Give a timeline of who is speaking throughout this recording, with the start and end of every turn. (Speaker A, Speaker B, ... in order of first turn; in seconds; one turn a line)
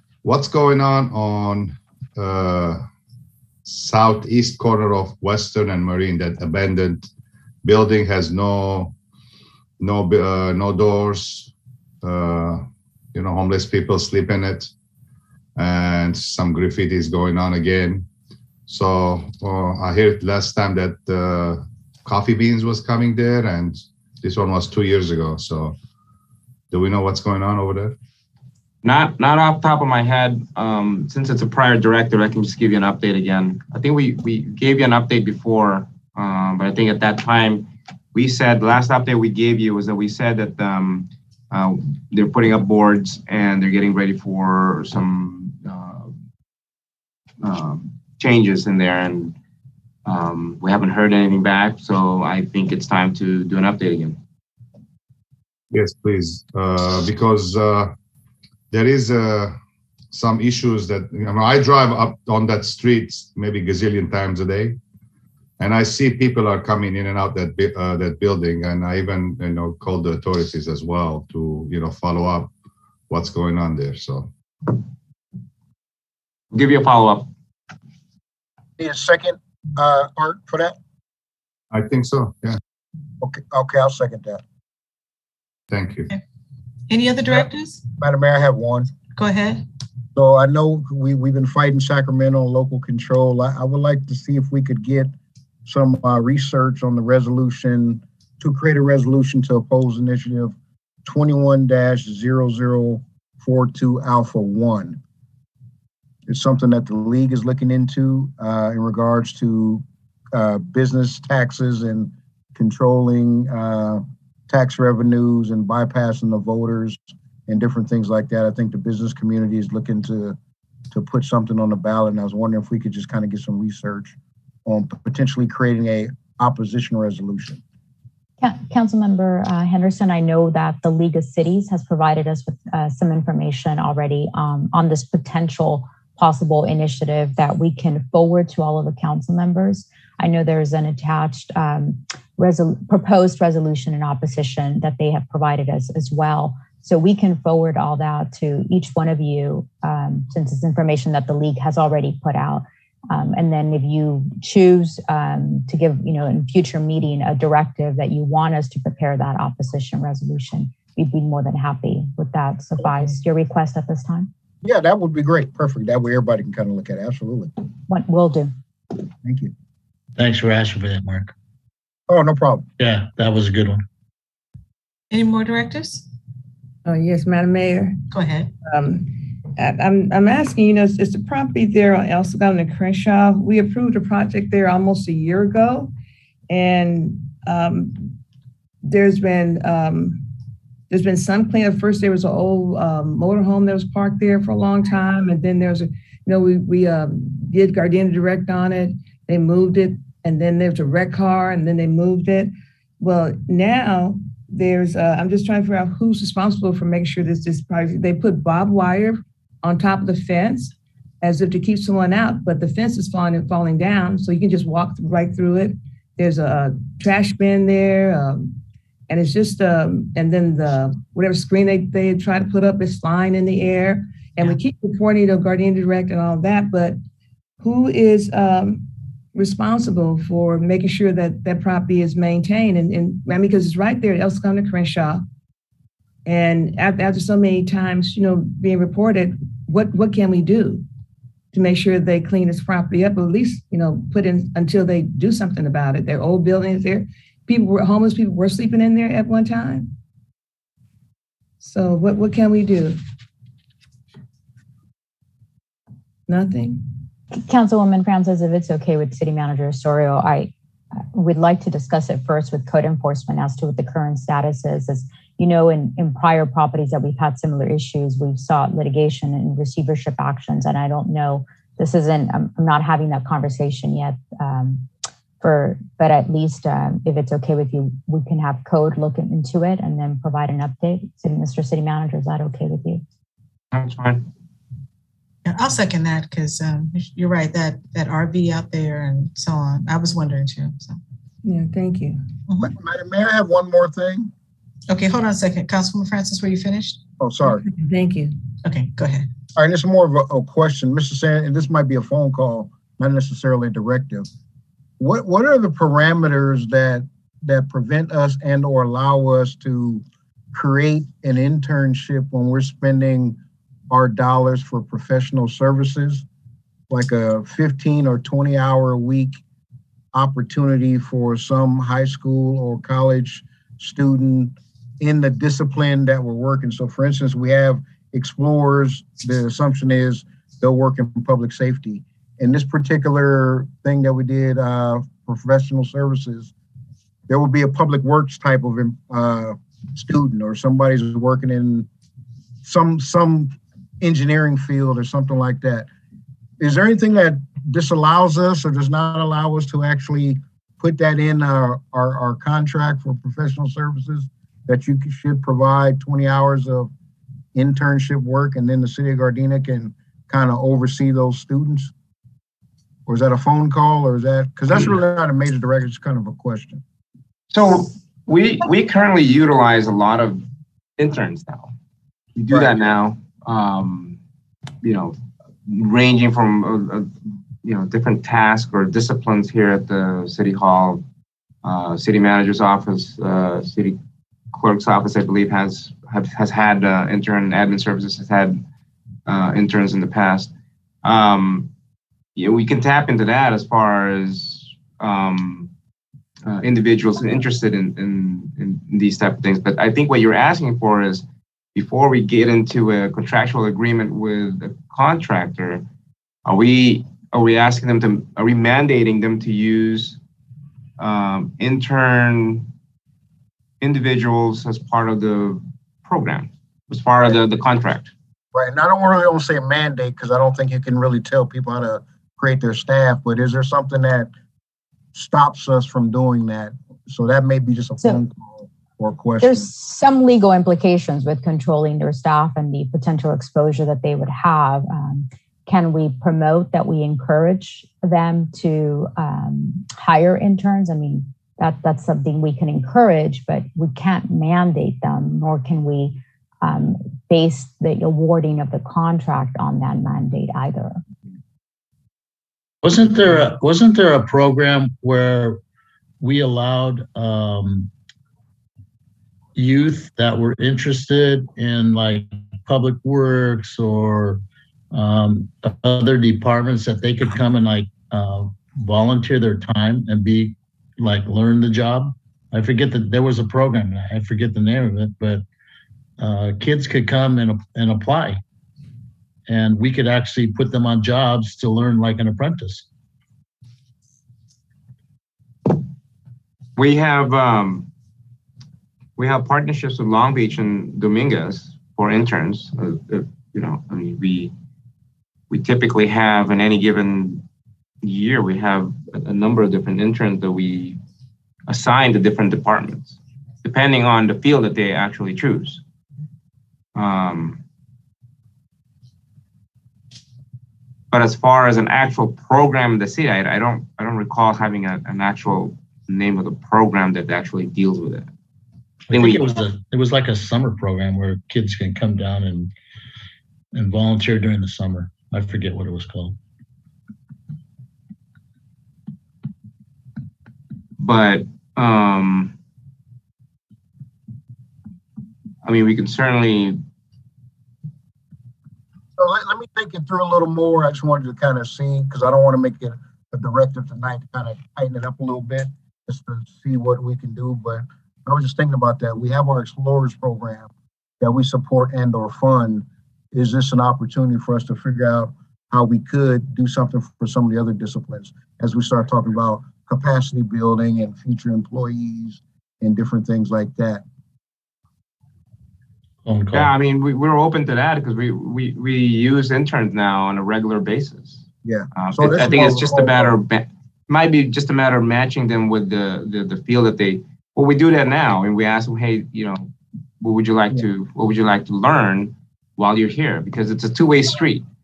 Speaker A: 0.2-2.8
Speaker A: 3.6-7.1
Speaker A: 7.6-8.9
Speaker A: 9.8-14.7
Speaker A: 15.6-18.1
Speaker A: 18.7-25.8
Speaker A: 26.7-27.9
Speaker B: 28.8-46.1
Speaker B: 47.4-49.3
Speaker B: 50.0-54.2
Speaker A: 55.7-57.9
Speaker A: 58.7-59.5
Speaker A: 60.1-64.8
Speaker A: 65.6-72.5
Speaker A: 73.1-74.3
Speaker B: 76.5-77.3
Speaker C: 78.8-80.7
Speaker A: 81.7-82.6
Speaker C: 83.2-84.4
Speaker A: 85.7-86.1
Speaker D: 86.9-87.8
Speaker C: 88.0-88.9
Speaker D: 89.2-89.6
Speaker C: 90.1-95.1
Speaker C: 95.7-105.0
Speaker C: 106.3-120.4
Speaker C: 120.9-124.1
Speaker C: 124.7-127.6
Speaker E: 128.4-164.3
Speaker C: 164.6-167.5
Speaker E: 167.9-168.5
Speaker C: 169.2-169.5
Speaker F: 170.2-171.3
Speaker C: 172.1-172.7
Speaker F: 172.8-173.8
Speaker D: 175.1-176.1
Speaker G: 176.8-178.0
Speaker D: 178.1-178.5
Speaker G: 178.6-185.9
Speaker G: 186.5-188.2
Speaker G: 188.8-190.2
Speaker G: 190.9-218.6
Speaker G: 219.1-227.0
Speaker G: 227.6-235.2
Speaker G: 236.2-240.8
Speaker G: 241.5-249.9
Speaker G: 251.6-253.0
Speaker G: 256.3-256.8
Speaker E: 257.3-274.9
Speaker E: 275.4-283.0
Speaker B: 283.7-284.2
Speaker D: 285.4-291.0
Speaker G: 291.4-292.2
Speaker C: 292.6-294.3
Speaker D: 294.9-297.0
Speaker C: 297.2-297.6
Speaker G: 297.6-298.3
Speaker D: 298.6-299.3
Speaker C: 299.6-304.3
Speaker C: 305.0-313.4
Speaker C: 313.9-316.2
Speaker C: 316.9-319.4
Speaker C: 320.1-336.5
Speaker C: 337.3-341.9
Speaker C: 342.6-345.9
Speaker C: 346.6-356.9
Speaker C: 357.5-361.9
Speaker C: 363.1-366.8
Speaker B: 367.5-370.4
Speaker B: 371.0-371.7
Speaker B: 372.4-374.2
Speaker C: 372.5-372.8
Speaker B: 374.8-375.1
Speaker B: 375.7-381.0
Speaker B: 381.6-384.0
Speaker B: 384.5-388.6
Speaker B: 389.2-390.5
Speaker B: 391.0-391.7
Speaker B: 392.4-395.7
Speaker B: 396.4-405.8
Speaker B: 406.4-410.2
Speaker B: 411.0-412.7
Speaker B: 413.8-418.1
Speaker C: 418.5-424.3
Speaker C: 425.1-429.7
Speaker E: 429.4-451.0
Speaker F: 452.8-455.6
Speaker F: 456.2-457.9
Speaker F: 459.6-475.4
Speaker F: 476.2-478.4
Speaker F: 479.5-482.8
Speaker B: 486.8-487.9
Speaker B: 489.2-494.5
Speaker B: 495.5-497.4
Speaker B: 498.0-501.0
Speaker B: 501.7-505.8
Speaker B: 506.9-507.6
Speaker B: 511.1-518.3
Speaker F: 519.1-522.7
Speaker B: 519.1-519.4
Speaker F: 523.7-526.4
Speaker B: 531.0-532.5
Speaker B: 535.6-536.8
Speaker C: 539.2-564.0
Speaker F: 566.2-566.7
Speaker B: 566.5-571.4
Speaker C: 571.6-573.4
Speaker B: 572.0-584.6